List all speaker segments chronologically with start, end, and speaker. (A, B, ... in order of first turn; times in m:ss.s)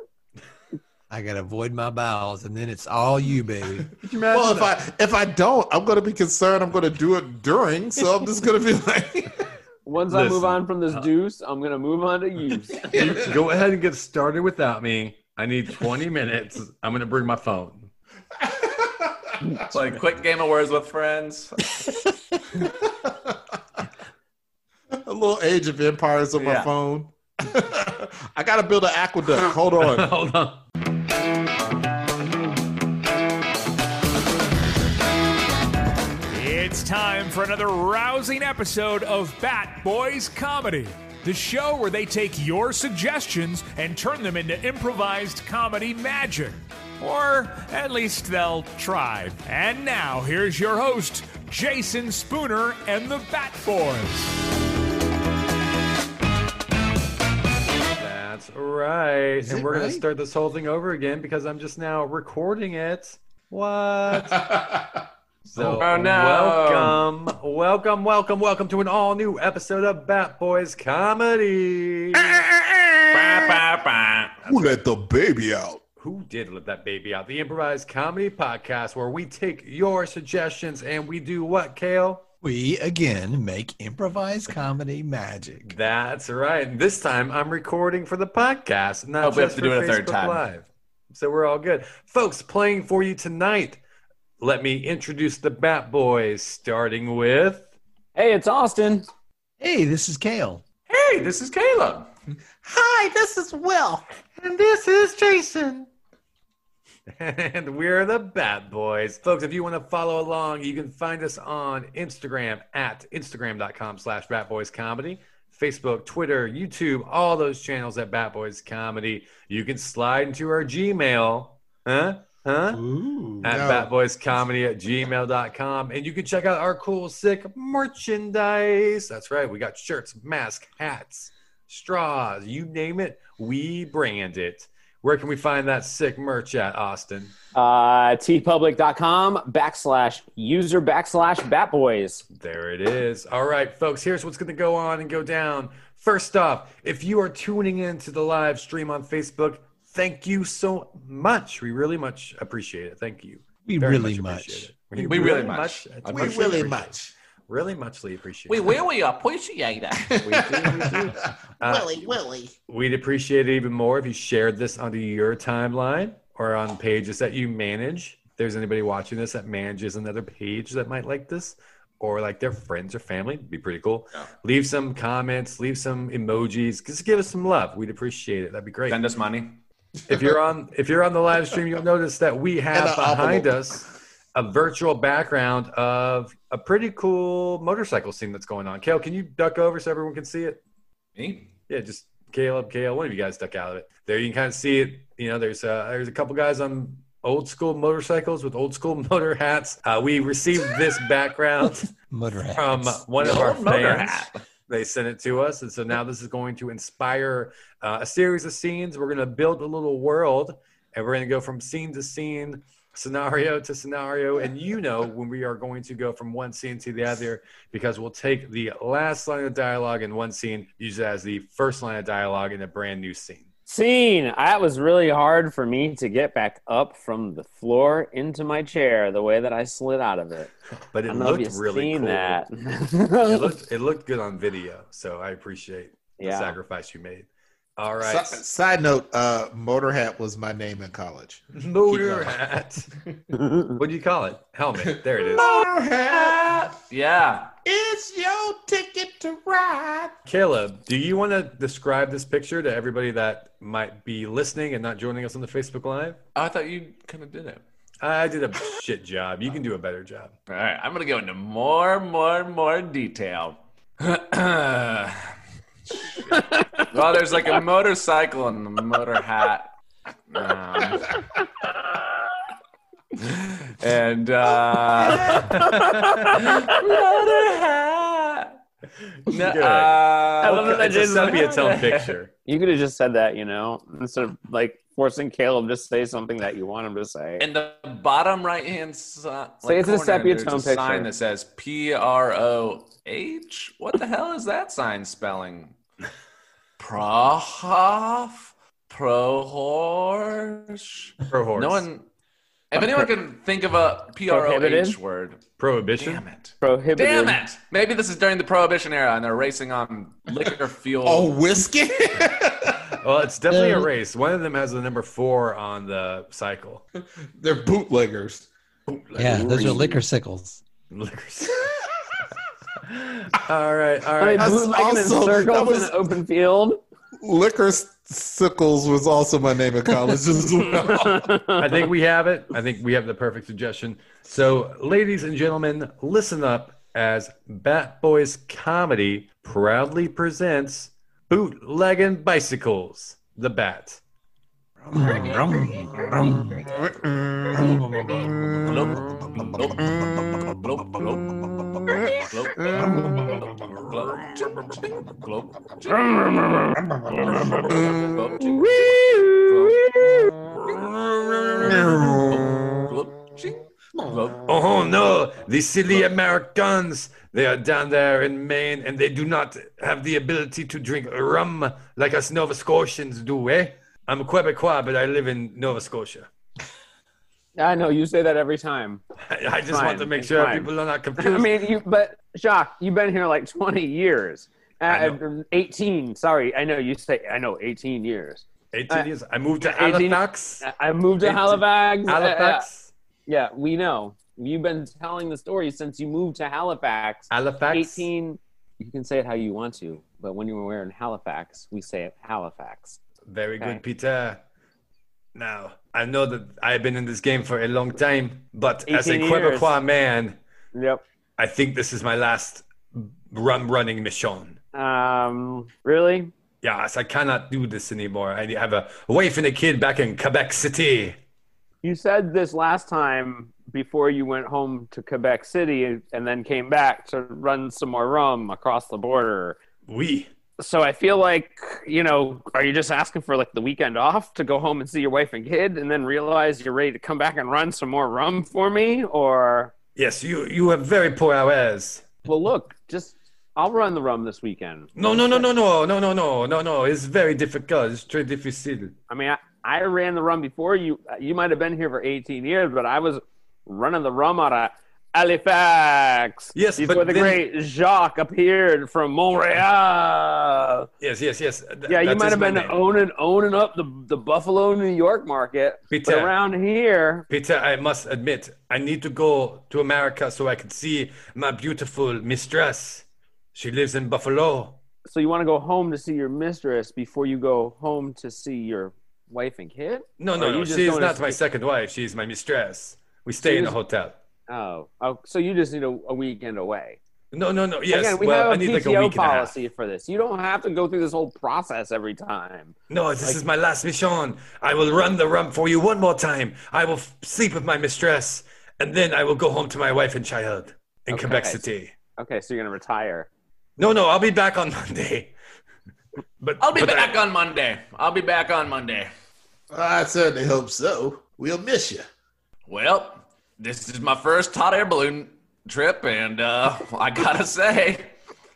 0:01.1-0:04.7 A
0:04.1-0:09.5 B
0:04.2-0:04.6 C
0:09.9-0:13.0 D
0:10.1-0:11.0 C
0:12.9-0:17.9 C
0:18.5-0:19.5 B
0:19.5-0:21.7 E
0:22.6-0:23.4 B
0:24.9-0:30.1 B
0:26.4-0:26.7 E
0:29.8-0:30.6 C
0:36.3-0:54.3 F
0:58.0-1:04.5 C
0:59.4-1:00.0 A
1:04.2-1:05.0 B
1:05.5-1:12.4 C
1:05.6-1:05.9 A
1:05.8-1:07.0 E
1:12.2-1:13.6 B
1:13.1-1:14.4 E
1:14.4-1:15.8 B
1:14.5-1:14.8 C
1:16.0-1:22.3 C
1:22.4-1:25.7 A
1:25.6-1:33.8 C
1:29.2-1:30.4 E
1:34.4-1:37.7 C
1:38.2-1:39.1 D
1:39.6-1:40.6 A
1:40.9-1:42.1 E
1:42.6-1:44.0 B
1:44.4-1:45.9 C
1:47.1-2:02.8 C
2:02.7-2:03.5 A
2:03.4-2:17.4 C
2:03.5-2:03.9 B
2:17.6-2:22.2 D
2:22.4-2:37.0 C
2:33.7-2:35.3 A
2:35.0-2:36.7 E
2:36.1-2:37.1 B
2:37.5-2:38.8 C
2:38.5-2:41.2 E
2:40.1-2:42.5 B
2:41.6-2:42.2 C
2:42.7-2:59.0 C
2:58.9-2:59.6 E
3:00.1-3:10.6 C
3:00.1-3:00.4 B
3:02.7-3:03.5 B
3:11.2-3:11.5 E
3:11.7-3:21.9 C
3:22.0-3:23.0 A
3:22.6-3:43.4 C
3:23.2-3:24.4 E
3:43.7-3:50.5 D
3:50.9-3:52.4 C
3:51.1-3:53.5 D
3:53.3-3:58.4 C
3:56.2-3:56.6 D
3:58.0-4:02.4 B
4:01.5-4:02.9 C
4:03.7-4:05.7 C
4:04.9-4:06.7 B
4:06.1-4:07.5 E
4:07.6-4:10.1 B
4:10.3-4:16.2 C
4:16.4-4:17.6 E
4:18.0-4:20.3 C
4:20.5-4:25.3 E
4:25.9-4:29.7 E
4:26.3-4:26.9 D
4:30.3-4:31.1 E
4:33.2-4:38.6 E
4:35.3-4:36.4 C
4:35.3-4:36.8 D
4:39.3-4:42.1 E
4:39.3-4:42.3 C
4:40.4-4:41.5 D
4:42.5-4:47.4 D
4:47.4-4:55.8 E
4:49.6-4:51.1 D
4:56.8-5:02.0 E
5:01.3-5:01.8 C
5:02.7-5:05.4 E
5:04.3-5:05.0 D
5:05.6-5:06.2 C
5:06.0-5:11.4 E
5:06.6-5:07.4 D
5:11.0-5:13.0 B
5:13.0-5:16.8 C
5:13.5-5:13.9 A
5:17.4-5:18.5 B
5:18.9-5:20.0 C
5:19.2-5:20.6 A
5:20.9-5:21.8 C
5:22.8-5:24.6 C
5:24.2-5:26.8 D
5:24.4-5:26.0 B
5:27.2-5:31.5 B
5:30.9-5:31.6 D
5:31.6-5:44.0 C
5:44.8-5:48.6 A
5:48.6-5:49.9 E
5:50.5-5:52.8 E
5:52.7-5:53.3 A
5:53.4-5:56.0 E
5:56.1-5:56.9 D
5:57.1-6:00.2 E
6:00.7-6:01.8 C
6:01.6-6:04.4 E
6:04.5-6:16.3 C
6:17.6-6:19.0 D
6:19.3-6:21.6 C
6:19.7-6:29.1 D
6:24.9-6:25.2 C
6:28.7-6:30.6 C
6:29.6-6:32.7 D
6:31.2-6:32.9 C
6:33.3-6:43.0 D
6:37.3-6:38.1 C
6:43.3-6:44.4 C
6:45.4-6:50.4 C
6:48.9-6:49.8 D
6:50.8-6:51.0 D
6:51.4-6:54.6 C
6:54.7-6:56.3 D
6:56.6-7:01.2 C
7:01.8-7:09.6 D
7:09.9-7:10.3 C
7:10.6-7:19.7 D
7:20.0-7:22.0 C
7:22.3-7:25.5 D
7:25.0-7:28.9 C
7:29.1-7:40.9 D
7:36.6-7:37.4 C
7:41.0-7:42.9 C
7:41.9-7:47.3 D
7:45.9-7:46.3 C
7:47.3-7:54.8 C
7:55.1-8:01.4 D
8:00.2-8:04.2 C
8:03.4-8:03.8 D
8:04.5-8:07.0 D
8:07.3-8:09.6 C
8:07.9-8:13.4 D
8:12.9-8:21.9 C
8:21.1-8:21.6 D
8:22.2-8:23.3 D
8:23.8-8:25.3 C
8:26.4-8:27.2 C
8:26.6-8:29.1 E
8:29.7-8:32.1 B
8:32.7-8:38.1 E